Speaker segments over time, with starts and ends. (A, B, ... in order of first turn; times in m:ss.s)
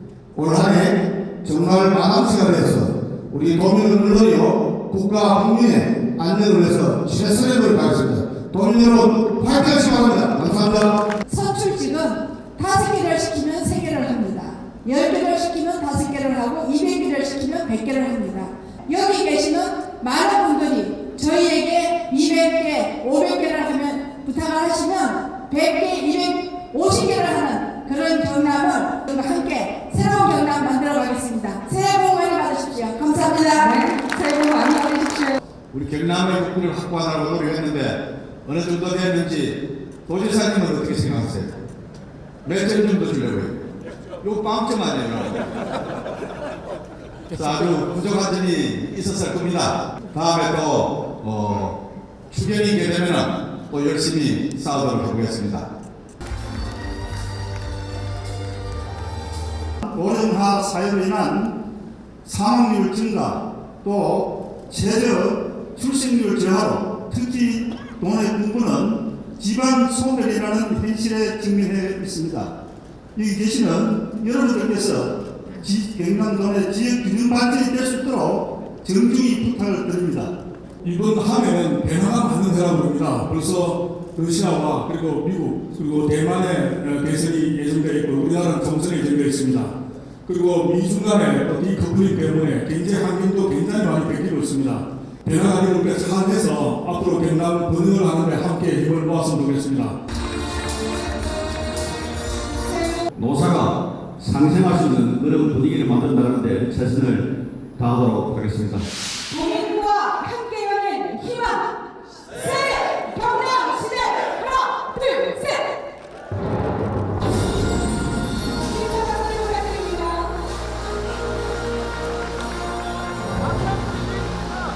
0:00.3-0:11.0 A
0:11.3-0:33.8 B
0:33.6-0:35.4 C
0:35.7-0:41.6 D
0:42.4-0:43.5 D
0:44.2-0:45.4 D
0:47.3-0:51.8 D
0:52.3-0:55.7 D
0:59.8-1:01.5 E
1:00.0-1:01.2 F
1:02.2-1:12.5 E
1:02.5-1:03.2 F
1:06.2-1:07.0 F
1:10.7-1:10.9 F
1:13.1-1:15.1 E
1:13.4-1:15.0 F
1:15.6-1:16.8 F
1:15.7-1:20.1 E
1:19.0-1:20.3 F
1:20.8-1:29.7 F
1:30.2-1:40.0 F
1:43.2-1:48.9 G
1:49.3-1:51.7 C
1:52.4-1:55.7 C
1:58.7-2:00.3 C